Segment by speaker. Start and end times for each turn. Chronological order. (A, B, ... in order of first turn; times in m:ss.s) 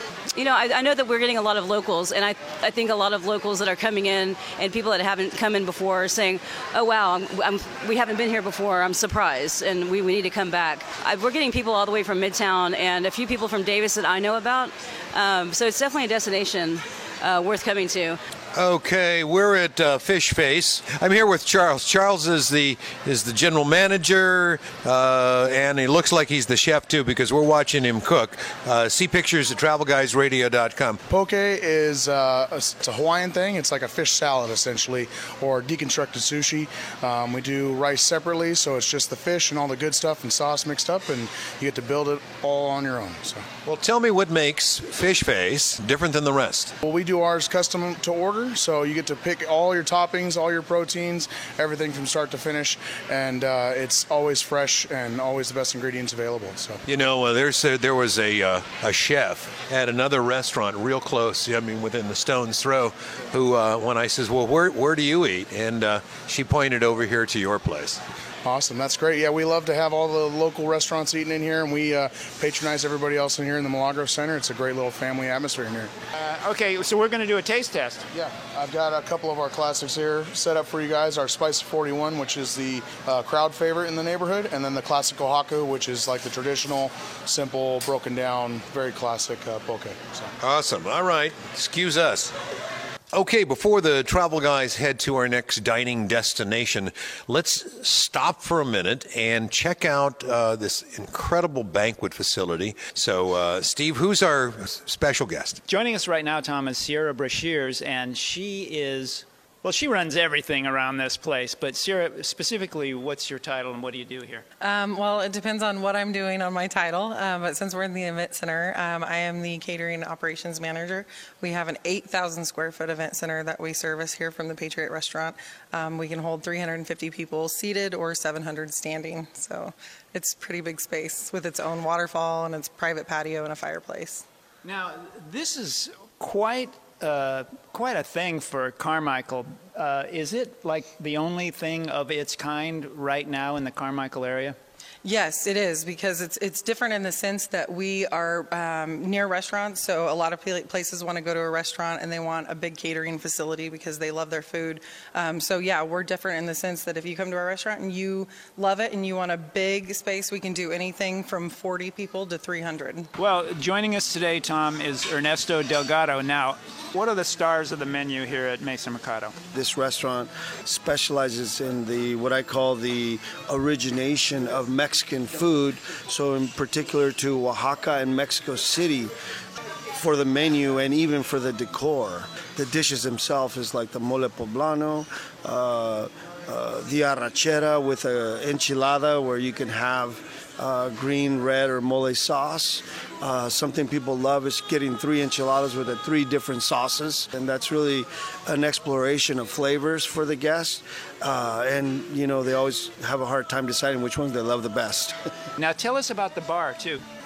0:00.3-0:18.2 A
0:18.6-0:31.0 B
0:31.1-0:43.5 C
0:43.7-0:46.8 B
0:46.8-0:56.8 C
0:56.9-1:08.0 B
1:08.4-1:15.9 C
1:16.2-1:18.0 D
1:18.1-1:30.3 C
1:30.4-1:32.4 B
1:33.1-1:45.6 B
1:45.7-1:54.4 D
1:54.6-2:14.2 E
2:14.6-2:24.6 D
2:25.0-2:43.1 E
2:43.2-2:49.4 D
2:49.5-2:59.1 F
3:00.0-3:25.2 F
3:25.6-3:27.0 D